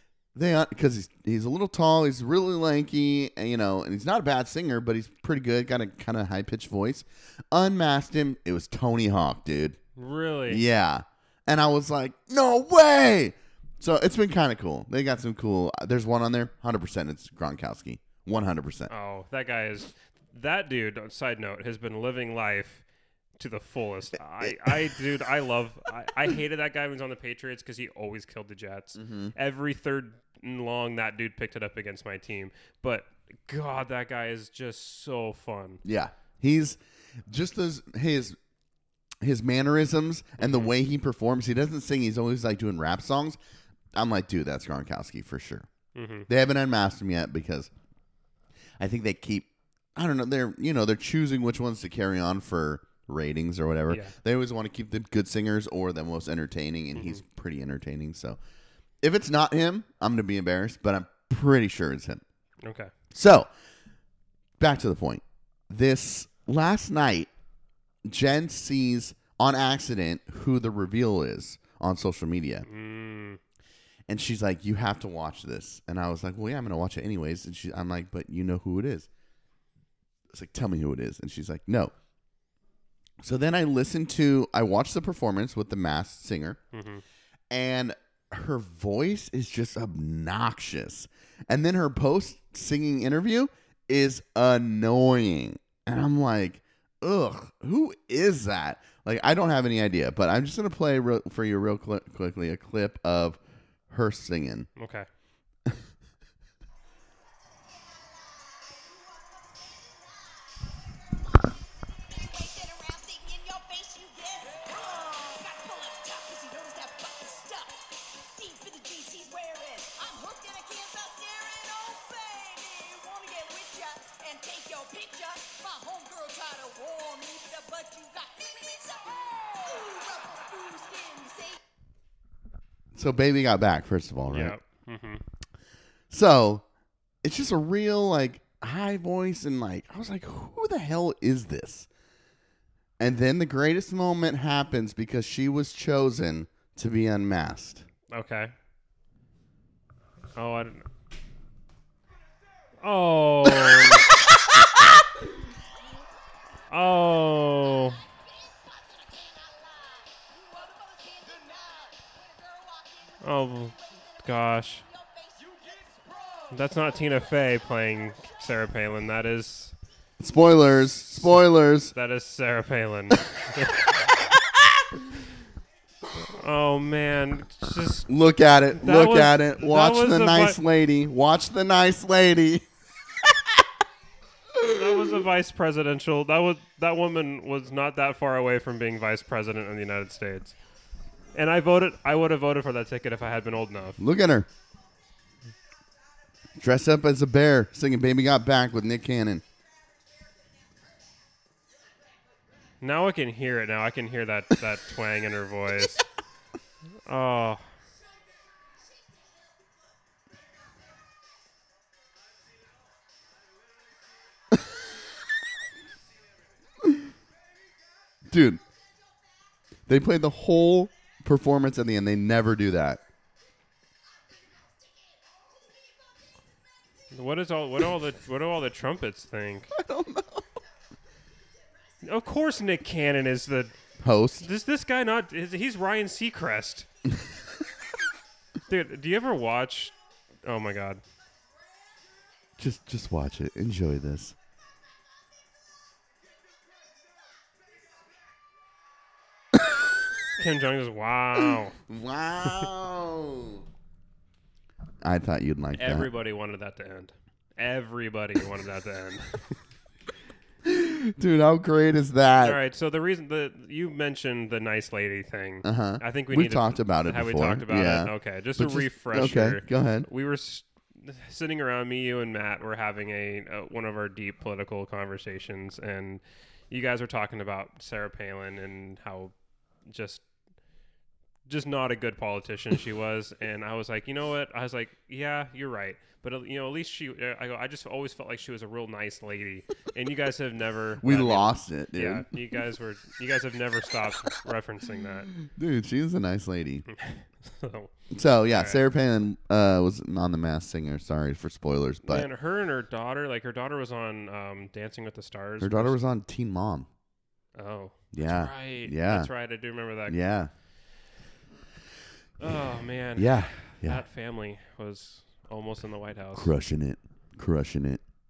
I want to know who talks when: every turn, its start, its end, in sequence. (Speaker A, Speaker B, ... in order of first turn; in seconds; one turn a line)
Speaker A: 0.3-9.8
Speaker B: 9.9-10.6
Speaker A: 10.5-18.9
Speaker B: 18.9-22.8
Speaker B: 23.4-35.8
Speaker A: 24.4-25.0
Speaker A: 28.9-29.3
Speaker A: 35.8-38.4
Speaker A: 39.2-43.4
Speaker B: 40.4-40.7
Speaker A: 43.9-45.7
Speaker B: 45.9-46.3
Speaker A: 46.3-47.7
Speaker A: 48.8-58.4
Speaker B: 53.9-54.1
Speaker B: 56.9-57.2
Speaker A: 59.0-62.2
Speaker B: 62.6-62.9
Speaker A: 63.1-63.5
Speaker A: 64.6-67.3
Speaker A: 68.0-72.7
Speaker B: 72.6-73.4
Speaker A: 74.1-79.1
Speaker A: 80.3-81.9
Speaker A: 83.2-86.6
Speaker B: 86.7-87.0
Speaker A: 87.5-103.4
Speaker A: 103.9-104.7
Speaker B: 104.8-105.1
Speaker C: 107.7-131.6
Speaker A: 132.9-134.5
Speaker B: 134.3-135.2
Speaker A: 136.1-136.6
Speaker A: 137.2-141.9
Speaker A: 143.0-147.8
Speaker B: 148.1-148.5
Speaker B: 150.3-150.9
Speaker B: 152.8-154.1
Speaker B: 156.7-158.0
Speaker C: 158.4-164.2
Speaker B: 163.2-164.8
Speaker C: 164.8-165.9
Speaker B: 166.5-169.7
Speaker A: 170.2-171.9
Speaker B: 171.9-174.3
Speaker A: 174.3-174.8
Speaker B: 176.2-178.1
Speaker A: 178.1-182.6
Speaker B: 178.8-180.6
Speaker A: 183.2-183.6
Speaker A: 184.5-185.2
Speaker B: 184.7-190.5
Speaker B: 191.3-194.0
Speaker A: 194.0-194.5
Speaker A: 196.6-199.4
Speaker B: 202.8-206.0
Speaker B: 207.1-207.6
Speaker A: 218.3-218.6
Speaker A: 219.9-223.0
Speaker B: 227.1-229.7
Speaker A: 229.7-230.6
Speaker B: 232.0-233.7
Speaker A: 234.0-234.5
Speaker B: 234.4-236.9
Speaker B: 238.7-241.0
Speaker A: 242.6-244.3
Speaker B: 250.4-251.8
Speaker A: 251.3-253.6
Speaker A: 255.0-256.1
Speaker B: 255.7-259.6
Speaker A: 260.6-262.6
Speaker B: 262.4-279.3
Speaker A: 265.6-270.1
Speaker B: 279.9-280.2
Speaker B: 281.5-295.3
Speaker A: 291.0-292.3
Speaker A: 295.3-296.8
Speaker B: 296.9-297.9
Speaker A: 298.1-302.3
Speaker B: 298.5-298.8
Speaker B: 302.0-306.0
Speaker A: 305.6-306.9
Speaker B: 307.6-310.2
Speaker A: 308.1-309.3
Speaker A: 310.1-310.5
Speaker B: 312.4-316.5
Speaker A: 313.1-314.0
Speaker A: 316.3-318.0